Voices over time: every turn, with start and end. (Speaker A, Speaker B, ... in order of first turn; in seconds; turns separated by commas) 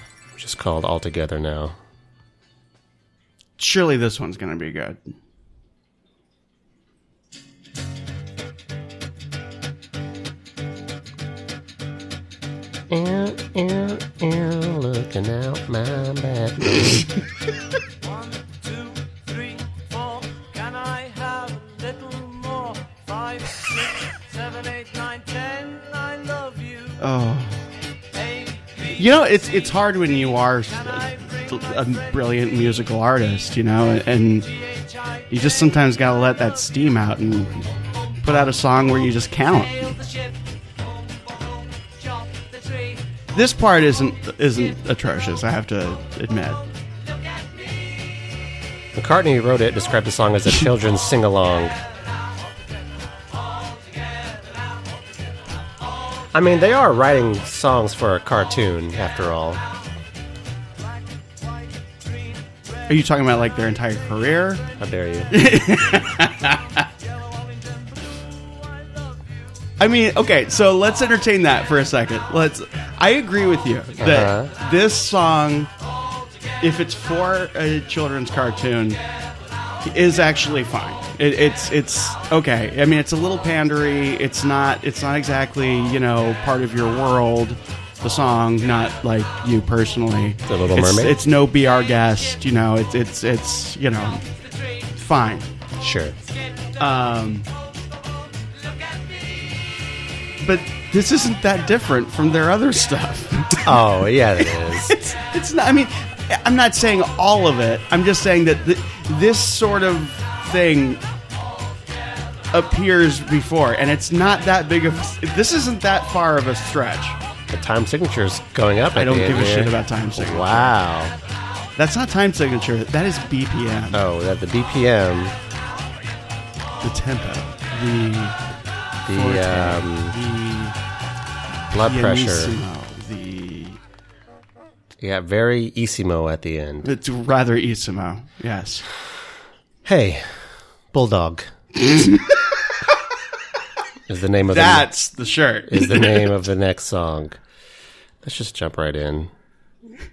Speaker A: 0.3-1.8, Speaker B: 3.6-5.0, Speaker A: 12.9-17.1, Speaker C: 18.0-27.0, Speaker B: 27.0-27.6, Speaker B: 28.9-34.5, Speaker B: 35.3-37.6, Speaker B: 38.2-40.0, Speaker B: 43.3-46.6, Speaker A: 48.9-51.8, Speaker A: 56.3-59.6, Speaker B: 62.9-64.6, Speaker A: 64.8-65.3, Speaker B: 65.3-66.9, Speaker B: 69.8-75.7, Speaker A: 74.0-74.5, Speaker B: 76.6-79.0, Speaker B: 79.8-94.2, Speaker A: 90.5-91.2, Speaker B: 94.9-95.5, Speaker A: 95.8-96.2, Speaker B: 96.8-97.5, Speaker B: 100.4-103.8, Speaker A: 103.6-104.9, Speaker B: 104.4-111.0, Speaker B: 112.5-117.2, Speaker A: 117.5-121.1, Speaker B: 118.9-120.8, Speaker B: 121.8-124.0, Speaker A: 123.9-125.3, Speaker B: 126.8-128.4, Speaker A: 129.1-130.2, Speaker B: 129.1-130.8, Speaker A: 131.7-132.6, Speaker B: 131.8-133.8, Speaker A: 135.0-136.9, Speaker B: 136.8-138.8, Speaker A: 139.8-141.5, Speaker B: 141.8-142.6, Speaker A: 144.1-144.9, Speaker B: 144.5-146.4, Speaker A: 145.7-147.4, Speaker A: 148.2-149.3